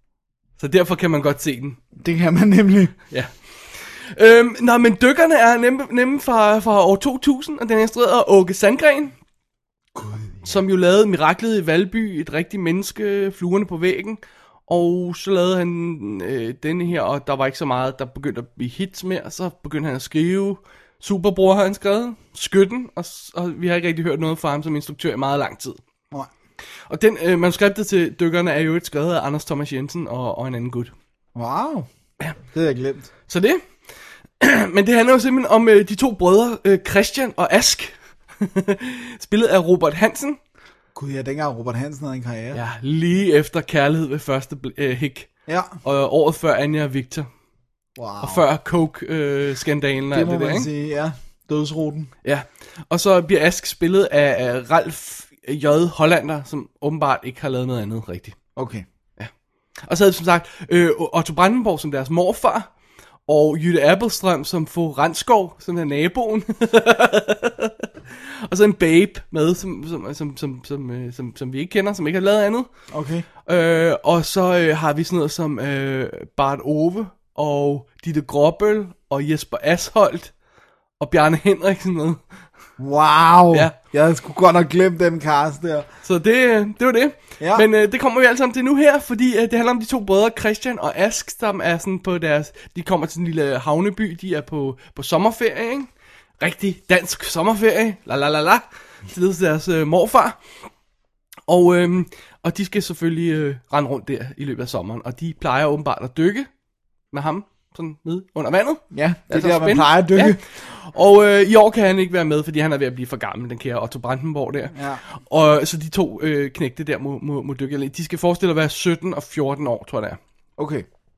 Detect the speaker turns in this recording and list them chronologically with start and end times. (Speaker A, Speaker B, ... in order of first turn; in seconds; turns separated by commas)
Speaker A: 0.6-1.8, Speaker B: 2.0-3.0, Speaker A: 3.1-9.1, Speaker B: 10.0-10.5, Speaker A: 10.4-25.8, Speaker A: 26.9-30.9, Speaker B: 31.4-31.9, Speaker B: 32.5-33.1, Speaker A: 33.3-33.6, Speaker A: 34.4-40.4, Speaker B: 41.0-42.6, Speaker A: 42.5-45.3, Speaker B: 45.5-45.8, Speaker A: 45.8-47.3, Speaker B: 48.0-48.4, Speaker A: 48.2-50.7, Speaker B: 50.1-52.1, Speaker A: 52.2-58.4, Speaker B: 58.6-58.9, Speaker A: 59.2-62.7, Speaker A: 63.3-67.9, Speaker A: 68.5-72.7, Speaker B: 72.9-73.3, Speaker A: 73.5-80.3, Speaker A: 81.0-82.2, Speaker B: 82.8-85.9, Speaker A: 86.0-95.9, Speaker B: 87.4-87.7, Speaker A: 96.4-100.4, Speaker A: 101.5-106.5, Speaker A: 107.1-120.2, Speaker B: 108.9-110.4, Speaker B: 114.8-115.0, Speaker B: 120.6-120.9